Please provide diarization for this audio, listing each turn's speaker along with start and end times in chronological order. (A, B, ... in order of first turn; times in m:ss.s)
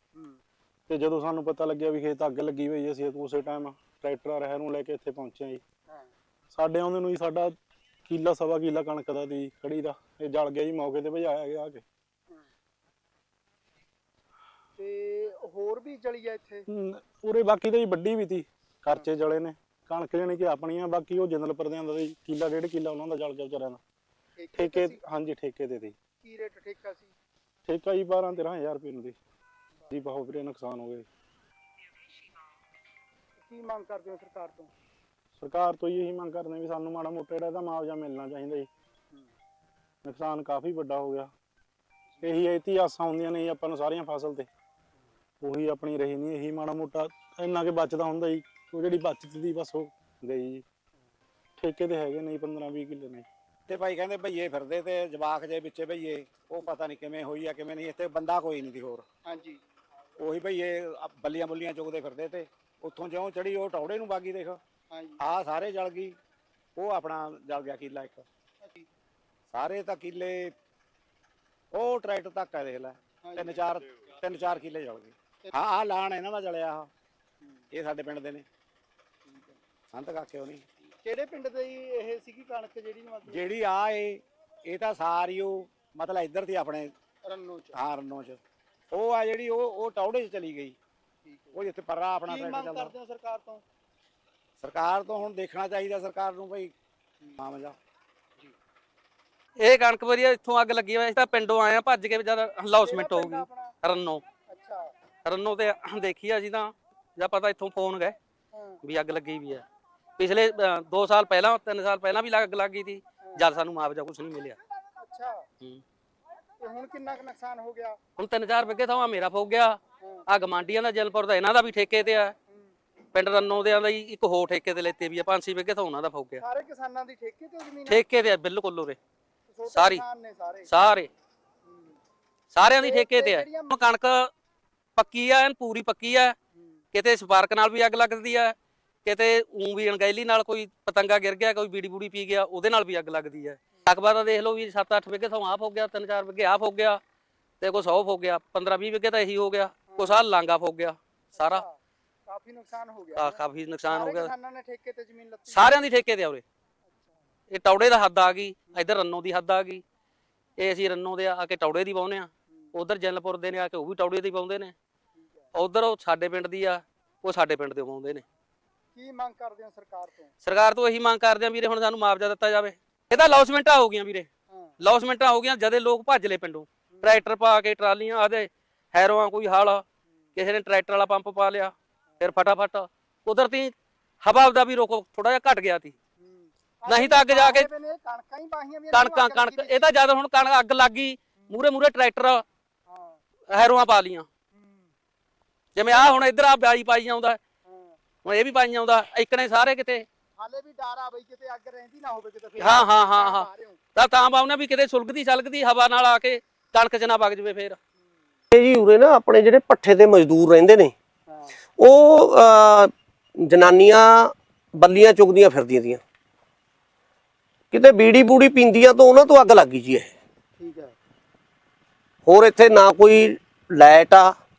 0:00.1-0:00.4 A
0:00.9-0:05.6 B
0:06.5-0:07.5 B
0:08.1-0:11.8 B
0:14.8-0:16.7 A
0:16.7-0:23.8 B
0:24.4-0:25.0 A
0:24.6-0:26.0 B
0:26.2-0:27.1 A
0:27.7-0:29.2 B
0:29.9-0:31.0 B
0:33.4-0:34.7 A
0:35.4-0:38.7 B
0:40.0-0:41.3 B
0:42.2-0:44.5 B
0:45.4-0:50.6 B
0:51.6-0:53.3 B
0:53.7-0:59.0 C
0:59.3-0:59.6 A
1:00.2-1:04.6 C
1:04.9-1:05.2 A
1:05.2-1:06.2 C
1:06.8-1:08.2 C
1:08.6-1:08.9 A
1:09.5-1:10.5 C
1:11.7-1:16.9 C
1:13.2-1:13.6 A
1:17.7-1:18.4 C
1:19.3-1:19.6 A
1:19.9-1:20.6 C
1:21.0-1:23.5 A
1:23.3-1:26.9 C
1:27.2-1:27.8 A
1:27.7-1:28.4 C
1:28.9-1:30.8 C
1:31.2-1:31.6 A
1:31.5-1:32.9 C
1:32.3-1:33.6 A
1:34.6-1:36.7 C
1:37.4-1:37.8 C
1:39.6-1:44.2 D
1:42.8-1:43.7 A
1:44.5-1:44.9 A
1:45.2-1:48.2 D
1:48.5-1:48.8 A
1:48.8-1:49.6 D
1:50.2-1:54.6 D
1:55.0-1:55.5 A
1:56.6-1:58.0 A
1:58.2-2:02.4 D
2:00.0-2:00.2 A
2:02.5-2:02.8 A
2:03.1-2:06.4 D
2:06.4-2:08.0 A
2:07.9-2:09.0 D
2:09.5-2:10.7 A
2:09.7-2:10.0 D
2:10.7-2:11.1 D
2:11.7-2:12.0 A
2:12.5-2:14.3 D
2:12.6-2:13.8 A
2:15.0-2:16.4 D
2:16.6-2:16.8 A
2:16.9-2:27.0 D
2:27.6-2:31.6 D
2:29.9-2:30.2 A
2:31.4-2:31.8 A
2:32.3-2:35.8 A
2:33.2-2:34.3 D
2:35.5-2:36.4 D
2:36.9-2:37.2 A
2:37.5-2:39.8 D
2:40.6-2:44.7 D
2:45.2-2:45.5 A
2:45.5-2:48.2 D
2:49.0-2:50.3 A
2:50.4-2:54.3 D
2:54.8-2:59.8 D
2:56.9-2:57.2 A
3:00.4-3:06.0 D
3:06.2-3:09.9 A
3:06.9-3:07.7 D
3:08.9-3:12.4 D
3:12.9-3:13.2 A
3:13.5-3:14.3 D
3:14.5-3:14.9 A
3:15.8-3:17.4 D
3:17.6-3:18.0 A
3:18.2-3:20.1 D
3:20.4-3:23.8 A
3:22.6-3:27.8 D
3:28.5-3:30.9 E
3:31.3-3:31.6 A
3:31.8-3:36.0 E
3:37.7-3:40.1 E
3:40.6-3:41.0 A
3:42.3-3:44.3 E